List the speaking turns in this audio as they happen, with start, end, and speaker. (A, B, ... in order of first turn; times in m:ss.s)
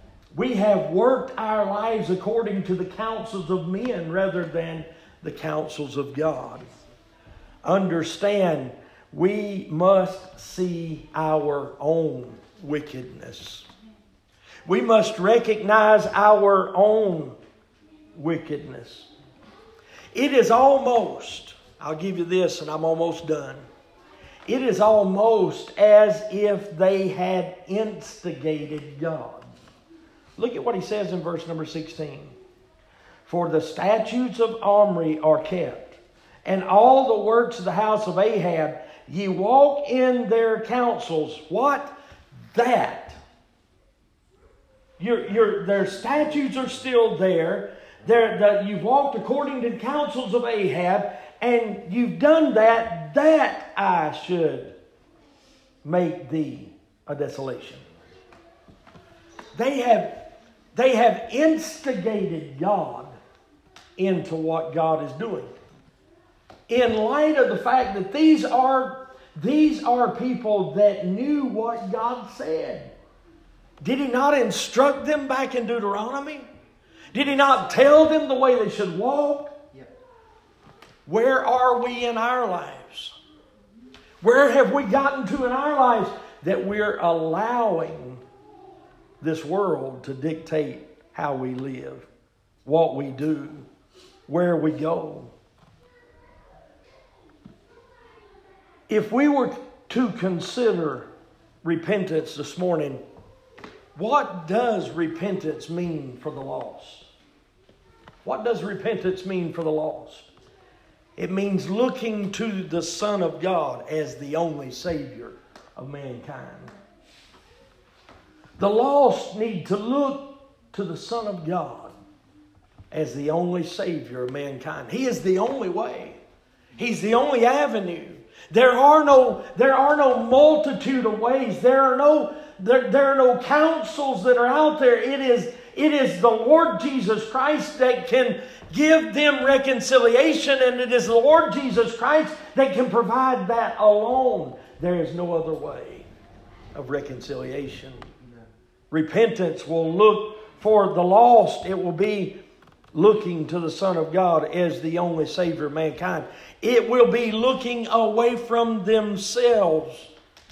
0:00.3-0:06.6 A
0:07.6-0:13.7 A
0:14.6-0:17.4 A
0:18.1-0:19.1 A
0:20.1-0:23.6 A
0:24.5-0:29.5 A
0:30.4-0:32.3 A
0:33.2-0:41.9 A
0:42.5-0:43.2 A
0:45.0-0:54.8 A
0:55.8-0:57.8 A
0:59.5-1:03.1 A
1:04.0-1:05.5 A
1:06.7-1:12.9 A
1:13.8-1:16.5 A
1:17.1-1:19.6 A
1:21.0-1:23.1 A
1:24.2-1:28.2 A
1:29.2-1:32.1 A
1:32.6-1:33.7 A
1:34.3-1:35.3 A
1:38.9-1:41.1 A
1:41.6-1:43.0 A
1:43.9-1:47.0 A
1:48.2-1:50.3 A
1:51.2-1:56.7 A
1:58.6-2:01.9 A
2:02.9-2:06.2 A
2:06.8-2:26.0 A
2:26.7-2:28.0 A
2:28.9-2:32.4 A
2:32.9-2:40.1 A